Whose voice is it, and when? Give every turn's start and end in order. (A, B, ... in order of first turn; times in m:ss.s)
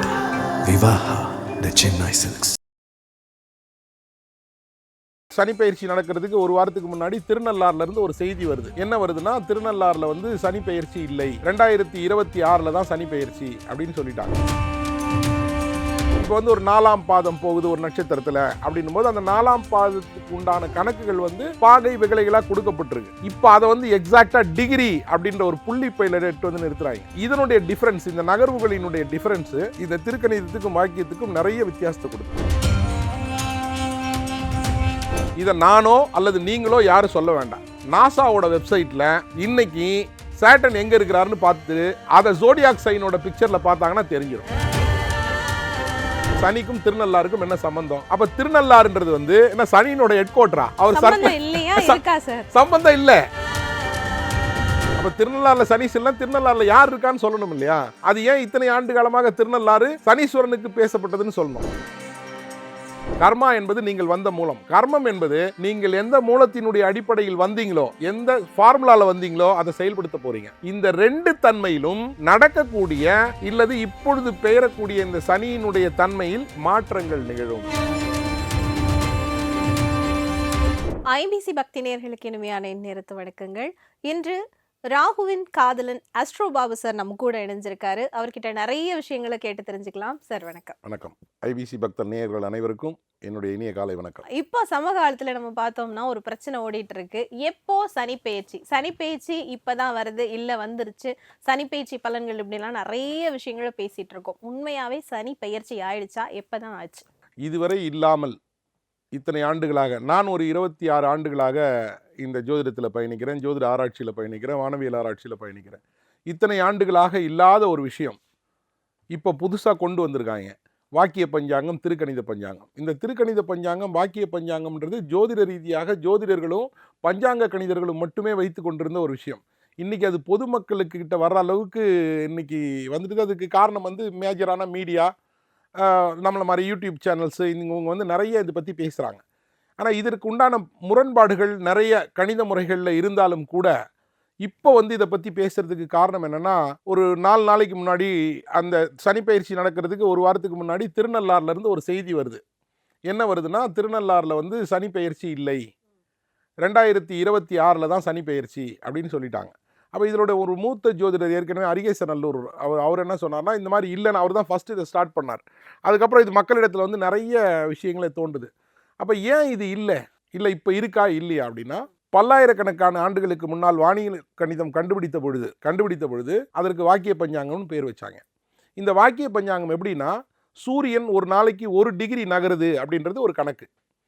0:00.6-0:02.6 A
0:05.3-0:14.3 B
0:16.2-0:32.4 B
0:35.4-0:44.4 B
0:46.4-0:52.0 B
0:50.9-0:52.5 C
0:52.5-0:53.2 B
0:55.0-1:01.7 B
1:03.2-1:17.7 B
1:21.1-1:24.4 C
1:24.9-1:30.8 C
1:30.8-1:34.2 B
1:34.3-1:47.0 C
1:47.4-1:48.3 B
1:49.1-1:51.6 B
1:52.2-1:58.2 B
1:59.1-2:15.1 B
2:15.8-2:19.2 B
2:19.8-2:23.7 B
2:24.4-2:32.4 B
2:33.1-2:35.6 B
2:36.6-2:48.5 B
2:49.0-2:58.2 B
2:58.8-3:03.6 B